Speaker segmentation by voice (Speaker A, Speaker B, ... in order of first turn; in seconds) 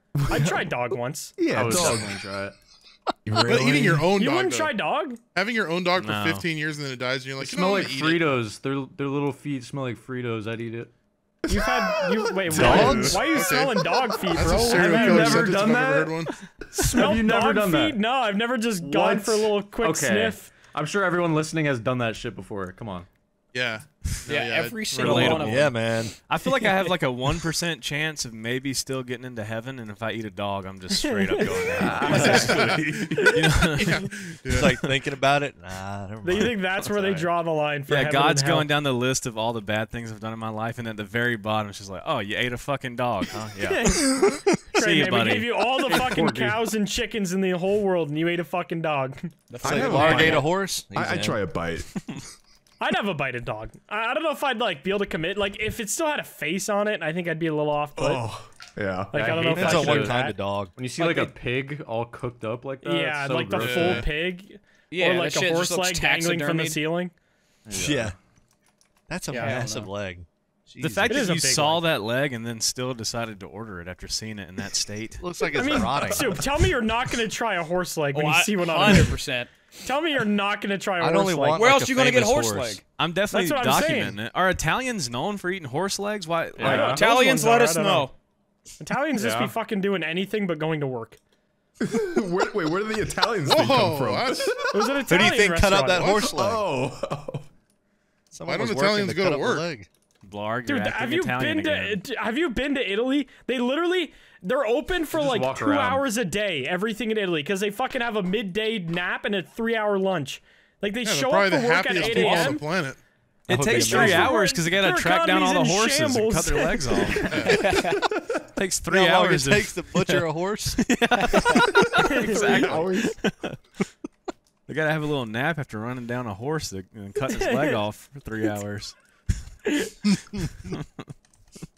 Speaker A: 0.2-2.2, 3.2-4.1, 11.5-13.2, 18.8-19.5, 32.1-33.3, 49.6-51.9, 58.0-59.1, 91.8-95.1, 96.1-97.5, 122.5-123.2
Speaker B: 0.3-1.4, 4.1-5.2, 11.5-15.5, 16.7-20.5, 31.0-33.4, 36.2-38.7, 43.7-49.3, 52.8-58.3, 59.1-60.3, 62.8-67.1, 69.3-69.9, 71.1-71.9, 75.4-79.2, 79.8-81.6, 83.3-84.2, 86.6-88.1, 88.8-91.2, 94.7-96.2, 100.7-112.7, 113.7-117.2, 122.0-122.7, 127.3-127.8
Speaker C: 1.5-2.5, 7.4-10.9, 12.6-13.2, 14.4-18.0, 19.0-23.1, 31.8-32.8, 45.9-46.7, 59.1-60.2, 60.8-64.1, 67.7-68.1, 86.6-87.0, 89.1-89.5, 105.1-106.0
Speaker D: 3.4-4.7, 5.3-8.3, 12.5-16.3, 23.5-25.3, 32.5-34.8, 63.6-64.0, 93.4-94.6, 95.7-96.2, 98.4-99.7, 111.0-113.0, 117.3-117.6
Speaker E: 6.0-6.5, 24.9-34.6, 37.9-45.7, 70.8-75.2, 83.0-87.1, 100.2-102.0, 112.0-112.5, 113.5-117.7, 118.5-123.6, 124.7-129.0, 130.6-131.1
Speaker F: 24.2-25.7, 49.5-50.5, 61.0-61.3, 64.9-66.8, 69.3-69.8, 78.1-79.5, 81.5-82.8, 86.8-88.1, 117.5-118.0
Speaker G: 25.2-26.1, 34.5-36.8, 49.6-51.4, 59.5-60.8, 67.7-68.2, 69.1-71.4, 75.2-76.4, 81.0-82.8, 95.1-96.6, 98.3-99.9, 113.5-114.3, 118.9-120.9